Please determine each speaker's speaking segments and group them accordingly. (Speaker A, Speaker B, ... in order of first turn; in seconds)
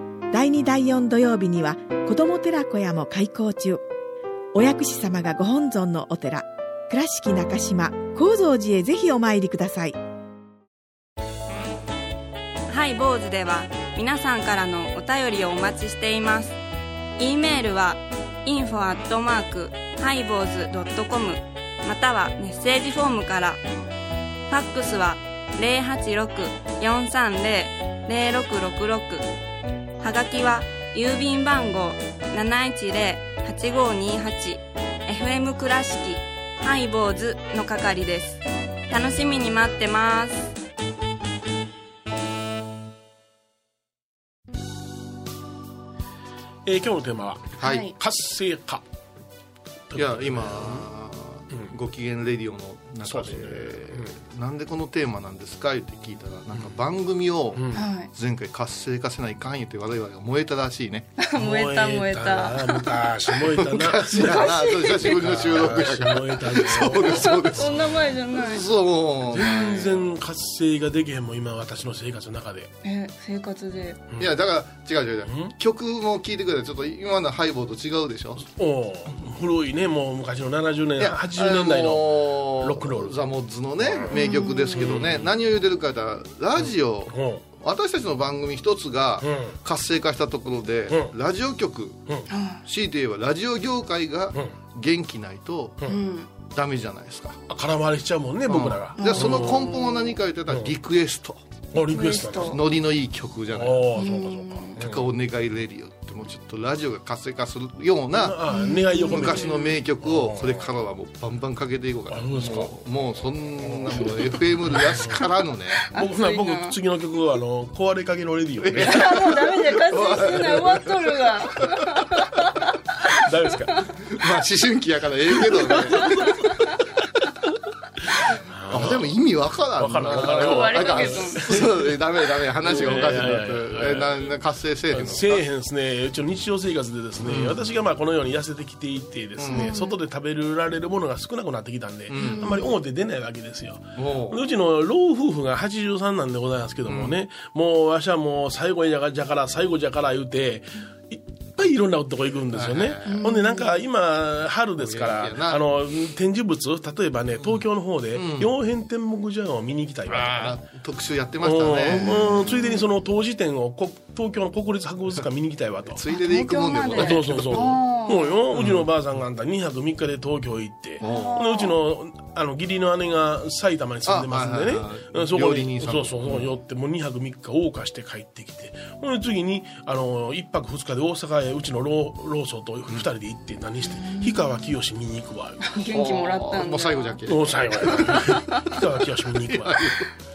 Speaker A: 0.3-3.8, 4.5-10.0
Speaker B: 12.7-16.6, 17.2-23.6, 24.5-29.2, 30.0-40.5
Speaker C: 46.6-48.8, 49.9-50.9, 53.0-54.1, 57.5-57.9, 61.3-67.6, 69.3-72.7, 75.3-75.5, 78.4-83.2, 83.8-85.3, 87.1-87.4, 89.2-89.5, 97.5-99.7, 101.7-102.6, 103.5-105.0, 108.1-110.7, 112.1-112.7, 113.6-115.2, 115.9-119.4, 123.1-123.9, 125.4-126.4, 128.2-129.2, 129.7-132.0, 132.6-134.4, 134.9-160.6, 161.4-166.0, 166.9-185.6, 187.2-189.9
Speaker D: 47.6-47.9, 49.9-61.1, 63.6-70.1, 74.2-78.5, 81.0-92.0, 92.6-95.8, 96.4-97.4, 98.5-101.4, 102.4-104.0, 104.8-115.8, 118.6-121.3, 124.1-126.3, 128.7-135.4, 137.2-137.7, 139.4-139.7, 142.1-142.5, 143.9-144.4, 146.8-147.2, 152.5-153.3, 154.8-155.6, 157.4-158.5, 160.1-162.1, 165.8-167.8, 168.5-168.8, 171.0-171.5, 174.1-176.5, 185.9-188.3, 189.3-190.1
Speaker E: 47.6-48.0, 57.7-58.1, 61.2-63.4, 64.0-65.3, 66.8-68.7, 72.8-74.0, 84.1-84.9, 92.3-92.6, 95.8-96.3, 99.0-100.1, 101.8-102.6, 104.0-104.8, 108.5-109.8, 115.8-116.8, 118.8-122.8, 126.0-126.5, 130.1-132.0, 132.9-133.3, 139.5-140.0, 142.2-142.7, 153.0-153.8, 161.9-162.9, 166.1-168.4, 171.0-171.8, 183.9-184.5, 185.7-187.2, 188.0-188.7